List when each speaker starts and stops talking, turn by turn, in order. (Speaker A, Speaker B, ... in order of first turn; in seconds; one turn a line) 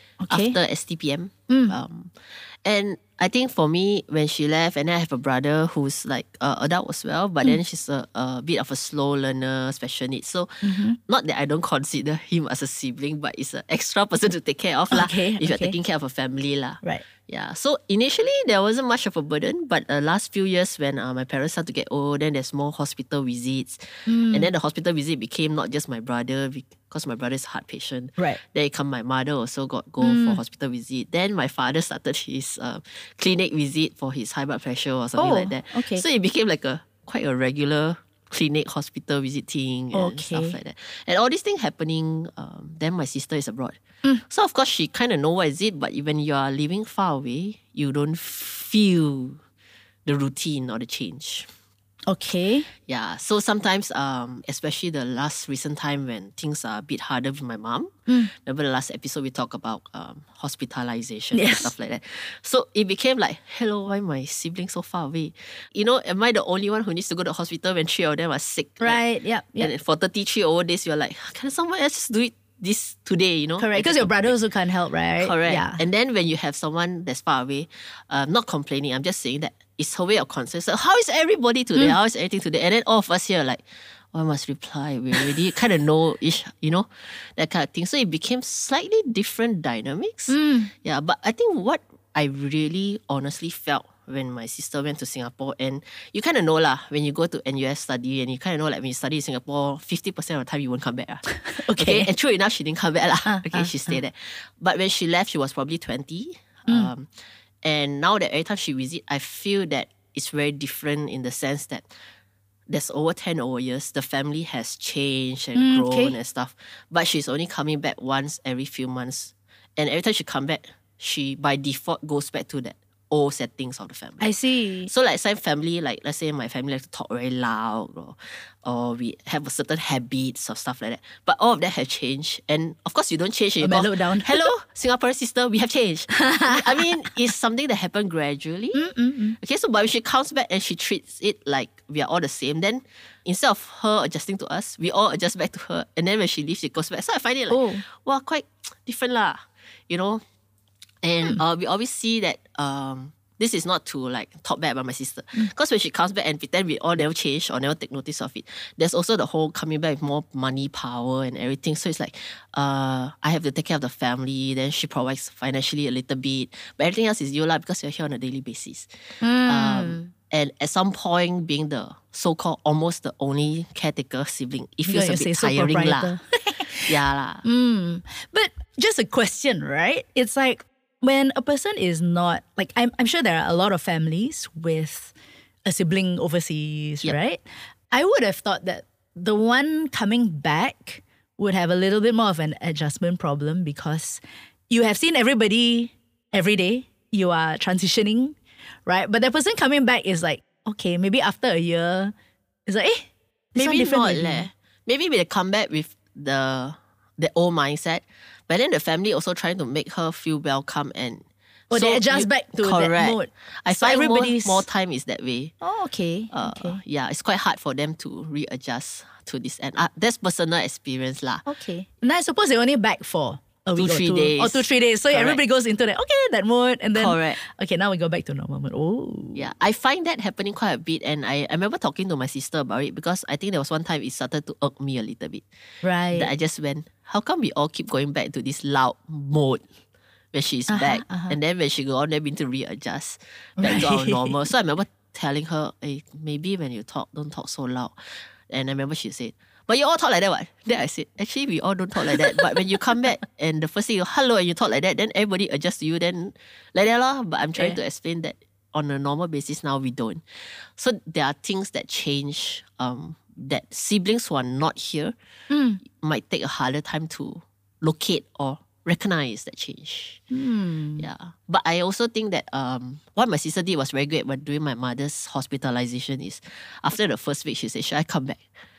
Speaker A: 0.2-0.6
Speaker B: 0.3-43.8
Speaker A: 1.5-1.8
Speaker A: 10.6-11.0
Speaker A: 14.9-15.7
Speaker A: 24.1-24.5
Speaker A: 30.0-30.4
Speaker A: 35.2-36.0
Speaker A: 39.9-40.6
Speaker B: 44.3-49.4
Speaker B: 50.0-51.5
Speaker A: 52.1-52.7
Speaker B: 52.9-69.0
Speaker A: 61.3-61.7
Speaker A: 68.8-69.7
Speaker B: 69.6-74.3
Speaker A: 73.6-75.8
Speaker B: 75.2-107.1
Speaker A: 90.3-90.7
Speaker A: 101.4-102.1
Speaker A: 103.2-104.0
Speaker B: 107.6-111.9
Speaker B: 112.7-124.3
Speaker A: 115.5-116.2
Speaker A: 124.2-124.9
Speaker B: 124.9-138.8
Speaker A: 133.6-134.4
Speaker A: 136.1-137.0
Speaker A: 138.7-139.4
Speaker B: 139.4-150.2
Speaker A: 147.5-147.8
Speaker B: 151.0-176.2
Speaker A: 169.2-170.1
Speaker A: 174.9-185.1
Speaker B: 176.8-177.4
Speaker A: 185.6-202.1
Speaker A: 202.7-204.5
Speaker B: 203.6-215.5
Speaker A: 211.7-214.6
Speaker A: 215.6-216.8
Speaker B: 216.3-221.4
Speaker A: 221.4-229.4
Speaker B: 223.8-225.4
Speaker B: 226.9-227.4
Speaker B: 229.3-235.4
Speaker A: 235.8-236.3
Speaker B: 236.1-239.7
Speaker B: 240.3-265.1
Speaker A: 240.7-241.4
Speaker A: 243.6-244.3
Speaker A: 265.5-265.8
Speaker B: 265.8-270.2
Speaker A: 270.3-271.1
Speaker B: 271.0-278.4